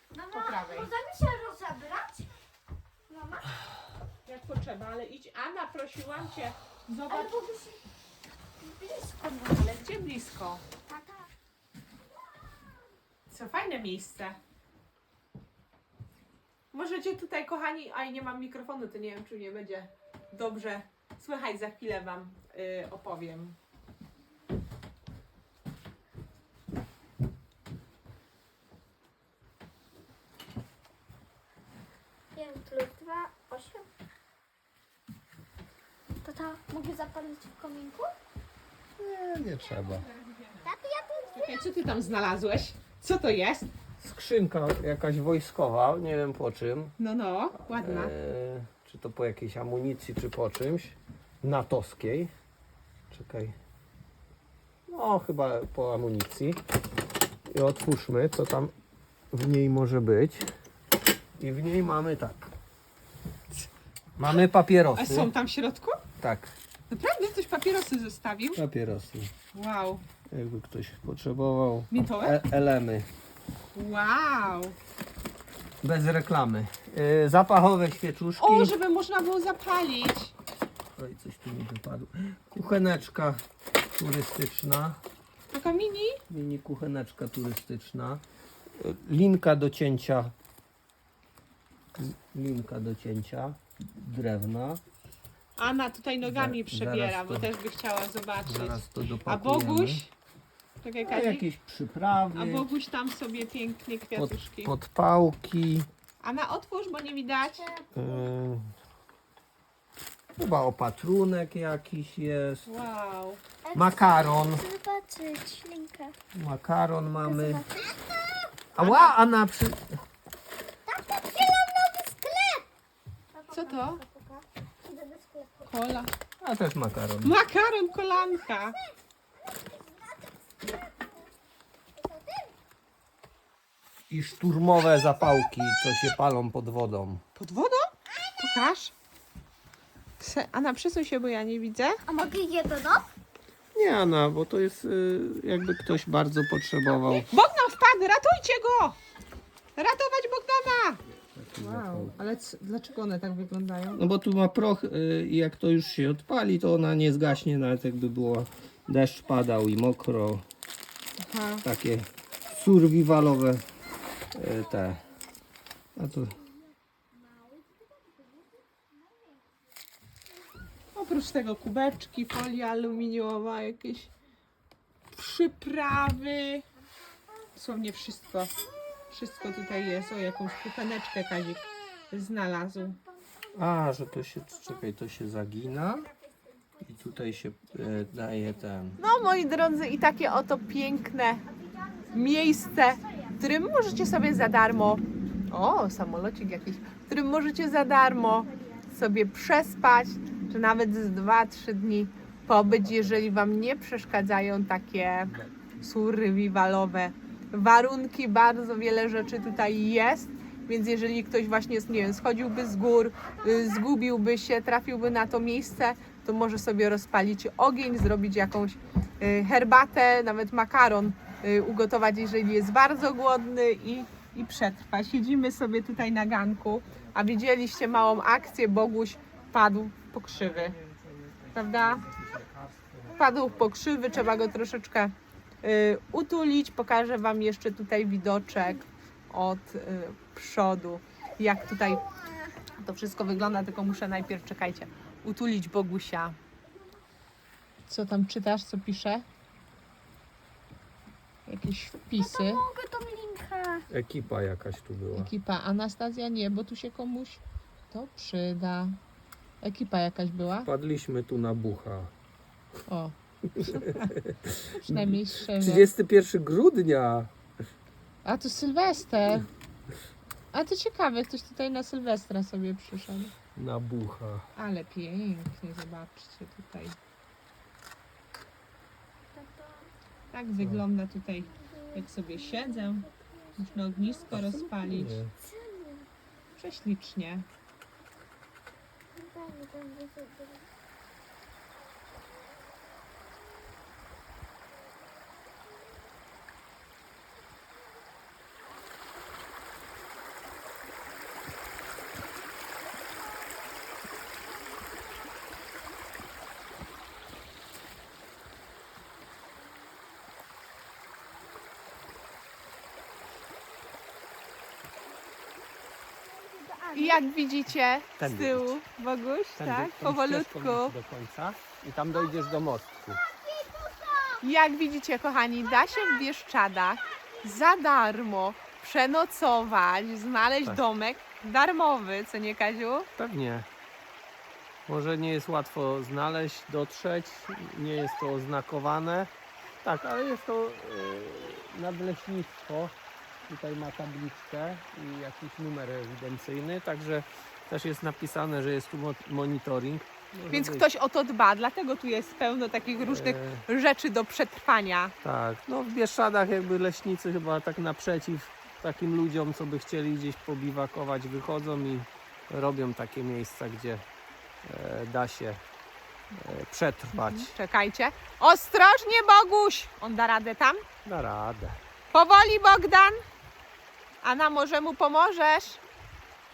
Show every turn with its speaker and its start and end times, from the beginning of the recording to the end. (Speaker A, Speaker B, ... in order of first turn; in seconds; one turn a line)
Speaker A: 0.1-2.3
Speaker B: 0.3-0.9
Speaker A: 3.1-3.5
Speaker B: 4.2-7.4
Speaker A: 7.1-7.8
Speaker A: 8.7-9.0
Speaker B: 9.0-10.6
Speaker A: 10.9-11.2
Speaker B: 13.3-14.4
Speaker B: 16.7-23.6
Speaker A: 32.3-33.9
Speaker A: 36.2-38.1
Speaker C: 39.0-40.1
Speaker B: 40.4-40.6
Speaker A: 40.6-41.6
Speaker B: 41.3-43.7
Speaker C: 44.0-46.9
Speaker B: 47.0-48.1
Speaker C: 47.7-52.3
Speaker C: 53.1-53.5
Speaker C: 54.9-56.6
Speaker C: 57.5-58.7
Speaker C: 59.3-60.5
Speaker C: 61.4-62.5
Speaker C: 64.2-65.3
Speaker B: 64.9-66.0
Speaker C: 66.2-66.5
Speaker B: 66.9-68.6
Speaker C: 68.6-69.3
Speaker B: 69.5-70.0
Speaker C: 70.3-73.1
Speaker B: 71.9-72.4
Speaker B: 73.8-74.8
Speaker C: 75.8-78.8
Speaker B: 78.4-80.3
Speaker C: 80.9-83.4
Speaker C: 84.0-85.0
Speaker B: 85.5-86.2
Speaker C: 86.3-88.2
Speaker C: 88.8-90.3
Speaker C: 92.0-94.8
Speaker B: 95.6-100.1
Speaker C: 96.2-97.5
Speaker C: 98.5-100.0
Speaker B: 100.8-101.5
Speaker C: 101.0-102.7
Speaker B: 102.3-104.7
Speaker C: 104.1-105.9
Speaker B: 106.2-107.7
Speaker A: 107.7-108.1
Speaker C: 107.9-108.7
Speaker C: 110.4-112.7
Speaker B: 112.7-113.4
Speaker A: 113.7-116.2
Speaker C: 113.7-114.7
Speaker C: 116.3-117.7
Speaker A: 117.2-118.5
Speaker C: 118.7-119.8
Speaker B: 118.8-119.2
Speaker A: 120.9-122.7
Speaker A: 123.3-125.7
Speaker B: 123.5-124.0
Speaker B: 125.7-126.1
Speaker C: 126.4-127.4
Speaker B: 127.2-128.8
Speaker A: 129.7-130.7
Speaker A: 132.0-132.5
Speaker C: 134.1-137.2
Speaker B: 137.3-138.9
Speaker B: 140.2-142.0
Speaker A: 142.1-143.1
Speaker C: 143.7-147.3
Speaker B: 147.1-149.0
Speaker B: 149.8-151.0
Speaker C: 151.2-152.2
Speaker B: 151.6-154.0
Speaker C: 153.9-160.4
Speaker B: 161.2-161.7
Speaker C: 161.6-163.7
Speaker C: 164.3-165.1
Speaker C: 165.9-166.4
Speaker B: 170.9-174.1
Speaker B: 175.1-176.6
Speaker B: 177.6-178.5
Speaker B: 179.1-183.0
Speaker C: 183.5-186.1
Speaker C: 186.8-189.0
Speaker B: 189.0-191.4
Speaker A: 191.5-193.3
Speaker B: 192.1-230.7
Speaker A: 198.4-198.8
Speaker C: 202.3-203.5
Speaker C: 205.3-205.7
Speaker C: 230.3-233.7
Speaker B: 231.6-232.0
Speaker B: 233.2-242.0
Speaker B: 242.8-246.3
Speaker B: 247.9-249.2
Speaker B: 251.4-252.6
Speaker A: 252.2-253.9
Speaker C: 253.9-255.3
Speaker B: 255.1-258.9
Speaker B: 259.6-260.7
Speaker C: 260.6-262.1
Speaker B: 262.9-264.1
Speaker C: 263.6-267.3
Speaker B: 264.7-265.9
Speaker B: 268.2-269.5
Speaker B: 270.5-273.3
Speaker C: 273.6-274.4
Speaker B: 274.6-276.9
Speaker A: 279.3-279.9
Speaker B: 280.3-285.2
Speaker A: 281.7-284.4
Speaker C: 284.3-285.3
Speaker A: 285.4-286.1
Speaker B: 286.6-287.4
Speaker A: 289.1-290.7
Speaker A: 316.3-317.2
Speaker B: 316.9-320.9
Speaker C: 318.2-318.8
Speaker C: 319.6-323.2
Speaker A: 323.2-324.4
Speaker B: 324.4-333.1
Speaker C: 333.2-333.7
Speaker C: 334.9-339.3
Speaker C: 339.8-342.9
Speaker C: 343.5-350.9
Speaker B: 350.5-355.1
Speaker C: 353.0-353.6
Speaker C: 355.2-364.0
Speaker C: 364.6-365.6
Speaker C: 366.3-367.5
Speaker B: 367.1-370.8
Speaker C: 371.1-371.8
Speaker B: 372.1-373.2
Speaker B: 374.2-375.8